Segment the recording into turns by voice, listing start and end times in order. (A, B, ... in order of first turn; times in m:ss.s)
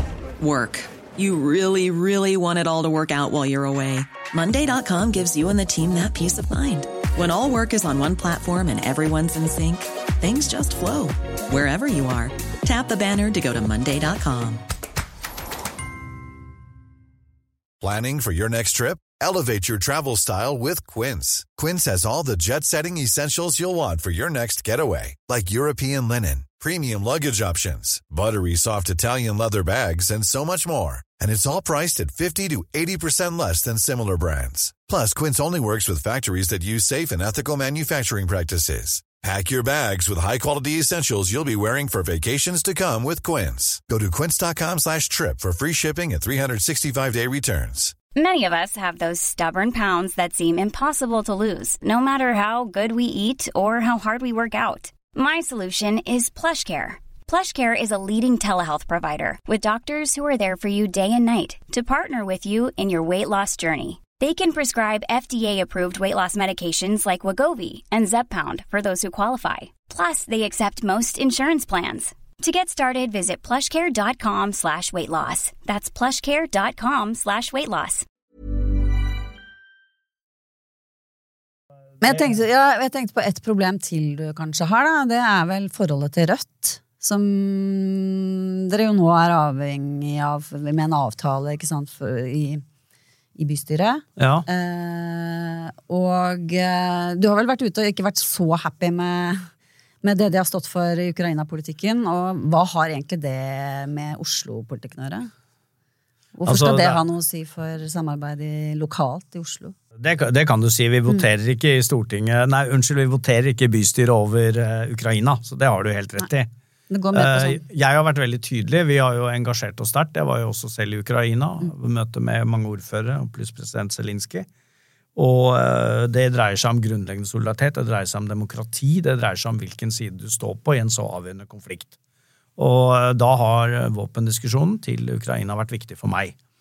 0:00.4-0:14.6 A
0:17.8-0:47.9 B
0:48.2-1:18.1 C
1:22.0-1:32.6 D
1:33.4-1:39.5 D
1:34.2-1:34.5 E
1:40.0-1:45.3 D
1:46.4-1:49.8 D
1:46.4-1:47.0 E
1:50.0-1:56.5 E
1:56.9-1:57.6 D
1:57.1-2:04.5 E
2:05.2-2:11.9 E
2:12.6-2:16.4 E